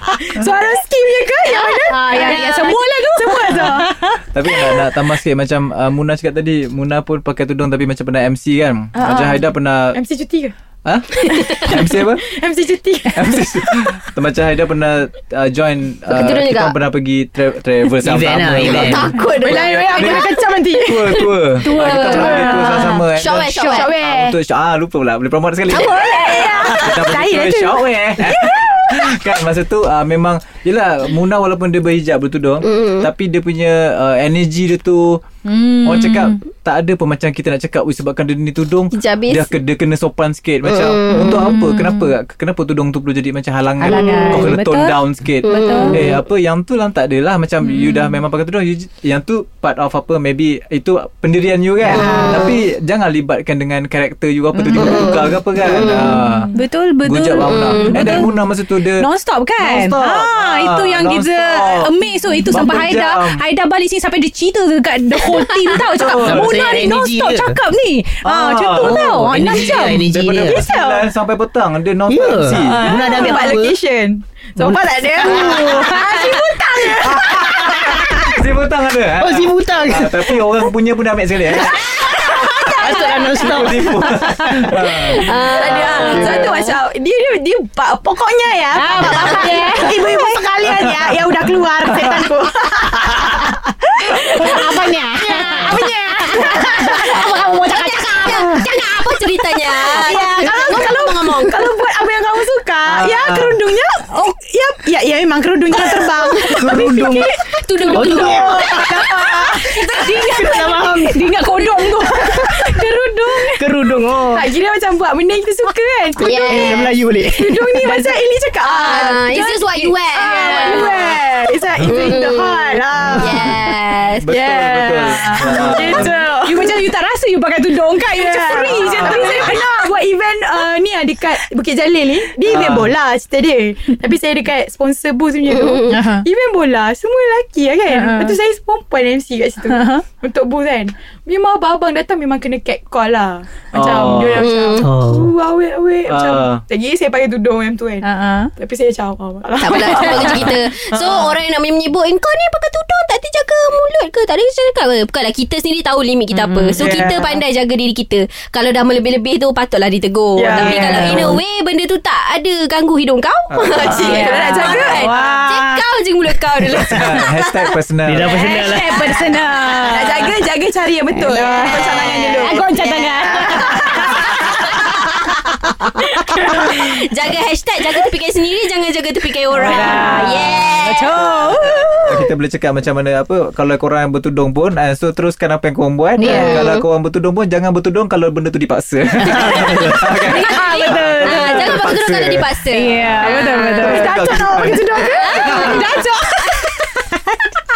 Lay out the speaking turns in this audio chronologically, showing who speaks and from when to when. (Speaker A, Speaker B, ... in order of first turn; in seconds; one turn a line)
Speaker A: 0.2-3.9
Speaker B: 1.6-2.8
Speaker C: 1.9-4.7
Speaker D: 4.3-10.0
Speaker A: 9.0-10.5
Speaker D: 10.8-12.3
Speaker A: 11.3-13.4
Speaker D: 13.1-19.1
Speaker B: 16.1-16.8
Speaker E: 18.0-19.1
Speaker B: 18.6-20.5
Speaker A: 19.0-21.3
Speaker D: 19.9-35.2
Speaker C: 21.6-23.0
Speaker B: 21.7-23.9
Speaker A: 21.8-22.9
Speaker C: 23.6-23.9
Speaker A: 23.6-24.4
Speaker C: 25.7-29.0
Speaker B: 25.7-26.8
Speaker A: 26.0-26.8
Speaker B: 32.6-33.1
Speaker C: 35.5-36.4
Speaker D: 35.8-56.5
Speaker B: 38.9-39.5
Speaker B: 40.6-41.5
Speaker C: 41.5-42.1
Speaker C: 43.8-46.0
Speaker B: 44.0-44.5
Speaker B: 45.4-46.2
Speaker A: 51.9-52.5
Speaker B: 51.9-52.5
Speaker C: 51.9-52.3
Speaker B: 54.7-55.3
Speaker A: 55.7-56.5
Speaker C: 56.5-58.3
Speaker D: 57.0-59.1
Speaker B: 57.5-58.2
Speaker C: 59.0-70.1
Speaker D: 59.6-63.4
Speaker D: 65.8-66.7
Speaker E: 66.2-67.6
Speaker D: 68.2-69.0
Speaker E: 68.8-70.7
Speaker D: 69.8-73.0
Speaker A: 70.5-71.0
Speaker E: 72.1-73.8
Speaker A: 72.5-78.3
Speaker E: 74.6-76.0
Speaker C: 75.2-76.8
Speaker D: 77.1-81.8
Speaker E: 79.2-80.4
Speaker E: 81.5-84.7
Speaker A: 81.8-83.8
Speaker D: 83.4-86.6
Speaker B: 85.2-86.8
Speaker A: 85.5-94.8
Speaker C: 88.8-90.0
Speaker B: 89.0-90.0
Speaker D: 90.6-91.4
Speaker D: 91.9-92.3
Speaker C: 94.3-98.7
Speaker A: 95.3-97.2
Speaker B: 97.1-101.7
Speaker A: 99.8-107.3
Speaker C: 100.4-100.9
Speaker D: 102.8-103.6
Speaker C: 105.7-107.0
Speaker E: 106.4-107.3
Speaker B: 107.6-109.5
Speaker A: 107.8-110.5
Speaker E: 107.9-108.8
Speaker C: 107.9-113.6
Speaker E: 110.1-111.3
Speaker A: 111.8-113.5
Speaker E: 113.6-114.5
Speaker A: 114.3-123.7
Speaker B: 116.2-116.9
Speaker E: 116.5-117.7
Speaker C: 117.5-118.2
Speaker B: 118.7-121.2
Speaker C: 120.1-121.1
Speaker E: 121.8-122.1
Speaker B: 121.9-124.3
Speaker E: 123.0-123.6
Speaker D: 124.2-126.2
Speaker A: 124.3-126.8
Speaker C: 125.4-129.9
Speaker A: 128.1-151.3
Speaker D: 128.7-129.5
Speaker D: 132.5-132.9
Speaker B: 135.5-135.9
Speaker C: 135.9-136.3
Speaker C: 137.9-138.4
Speaker C: 139.7-140.0
Speaker D: 143.7-144.5
Speaker B: 144.4-144.9
Speaker E: 144.8-145.3
Speaker D: 146.1-146.7
Speaker C: 148.0-148.5
Speaker B: 149.6-167.7
Speaker D: 150.2-150.5
Speaker C: 156.3-157.0
Speaker A: 156.8-157.4
Speaker D: 156.8-157.1
Speaker A: 160.4-161.4
Speaker C: 160.5-161.4
Speaker D: 163.5-164.1
Speaker A: 163.8-165.4
Speaker C: 163.9-165.8
Speaker D: 166.9-168.3
Speaker E: 168.1-169.1
Speaker C: 168.2-170.3
Speaker A: 169.9-174.7
Speaker C: 171.1-174.6
Speaker B: 176.2-181.1
Speaker C: 179.5-182.3
Speaker A: 179.6-180.1
Speaker D: 181.3-192.5
Speaker C: 186.2-186.7
Speaker B: 186.2-186.9
Speaker C: 189.3-191.9
Speaker B: 190.6-194.0
Speaker C: 192.7-197.4
Speaker D: 193.1-195.8
Speaker A: 193.8-196.1
Speaker B: 195.0-196.9